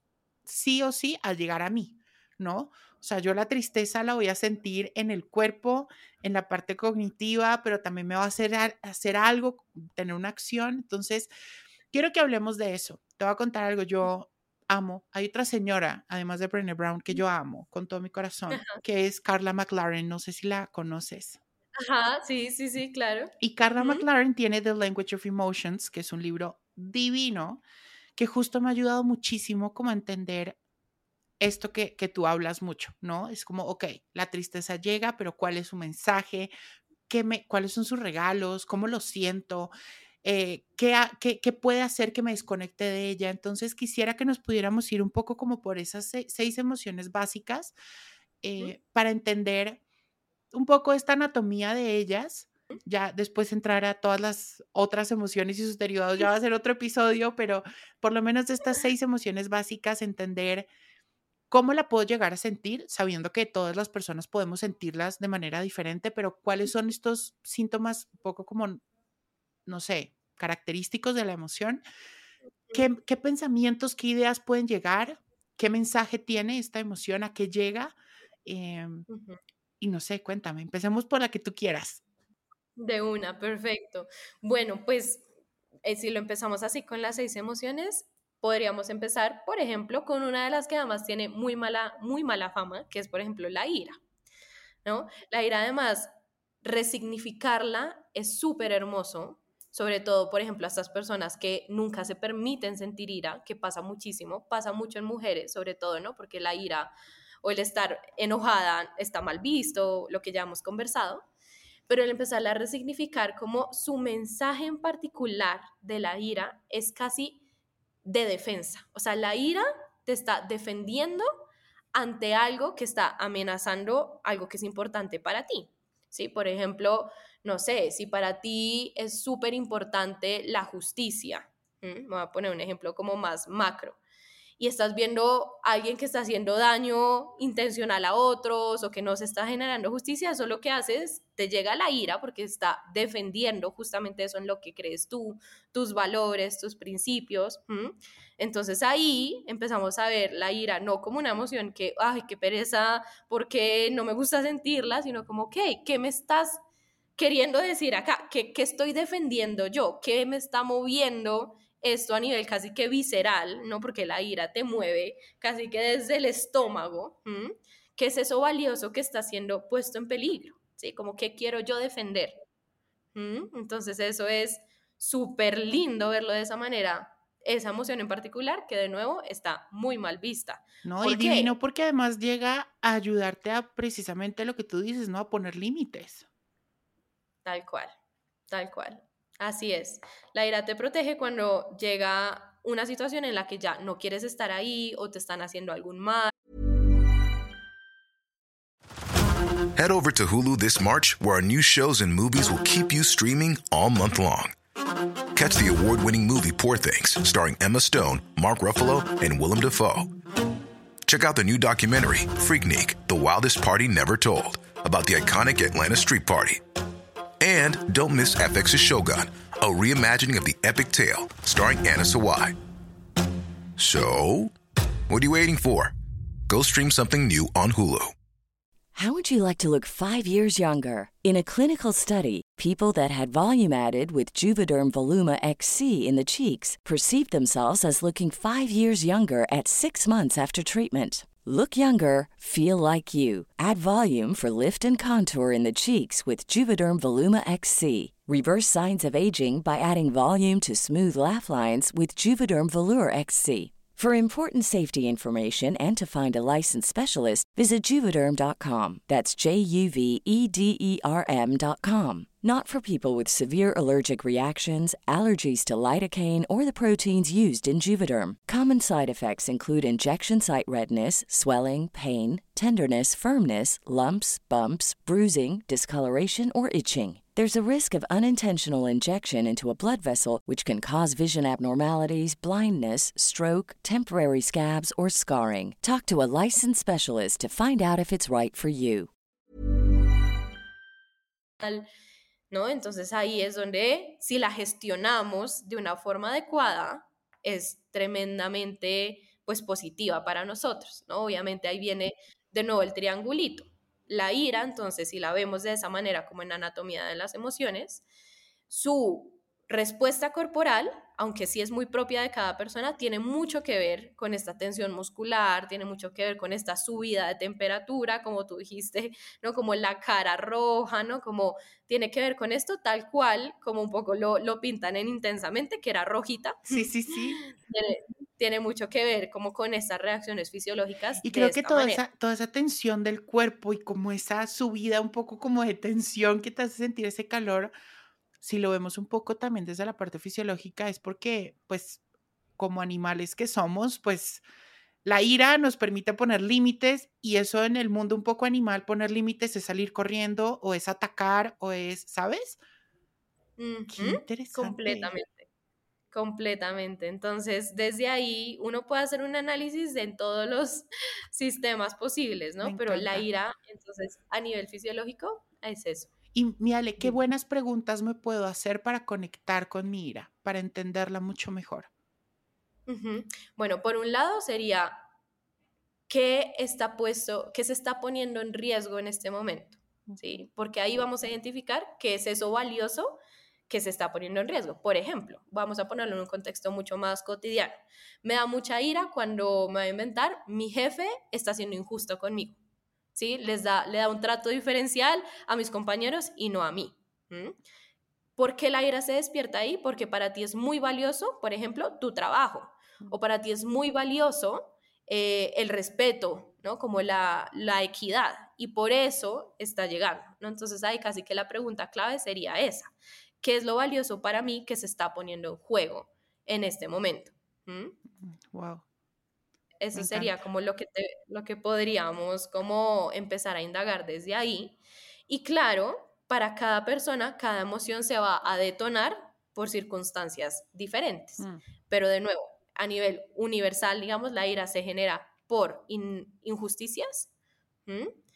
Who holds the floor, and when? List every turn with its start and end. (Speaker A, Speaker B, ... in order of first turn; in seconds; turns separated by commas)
Speaker A: 0.5-11.3, Speaker A: 11.9-21.4, Speaker B: 18.5-18.8, Speaker B: 21.8-24.1, Speaker A: 23.4-27.6, Speaker A: 28.2-30.6, Speaker A: 31.4-36.5, Speaker A: 37.1-39.7, Speaker A: 40.2-47.7, Speaker A: 48.4-49.8, Speaker A: 50.5-60.7, Speaker A: 61.5-68.8, Speaker A: 69.7-71.8, Speaker A: 72.7-79.1, Speaker B: 79.1-79.4, Speaker A: 79.8-82.0, Speaker B: 82.8-85.2, Speaker B: 85.8-94.0, Speaker B: 94.8-96.1, Speaker B: 96.6-111.2, Speaker B: 111.9-117.4, Speaker B: 118.0-134.0, Speaker B: 134.6-156.6, Speaker B: 157.2-172.4, Speaker B: 173.2-181.5, Speaker A: 180.8-186.2, Speaker B: 187.4-187.9, Speaker B: 188.5-196.3, Speaker C: 199.8-204.6, Speaker C: 205.3-210.1, Speaker C: 211.1-216.6, Speaker C: 217.4-222.6, Speaker C: 223.8-224.5, Speaker C: 225.1-225.9, Speaker C: 226.5-228.1, Speaker D: 228.9-289.1, Speaker B: 291.6-291.9, Speaker B: 292.5-308.0, Speaker B: 308.7-332.0, Speaker A: 326.7-327.4, Speaker A: 331.2-337.7, Speaker A: 338.4-342.0, Speaker A: 342.6-344.4, Speaker A: 345.1-352.6, Speaker B: 353.6-355.5, Speaker A: 353.9-355.1, Speaker B: 356.1-366.1, Speaker A: 362.6-363.2, Speaker A: 366.3-371.9, Speaker B: 372.9-375.0, Speaker B: 376.1-383.2, Speaker A: 380.1-380.5, Speaker B: 383.7-392.6, Speaker B: 393.1-397.6, Speaker B: 398.4-418.0, Speaker A: 418.2-418.8, Speaker B: 419.8-424.8, Speaker A: 419.9-420.4, Speaker B: 425.3-437.3, Speaker B: 437.9-438.1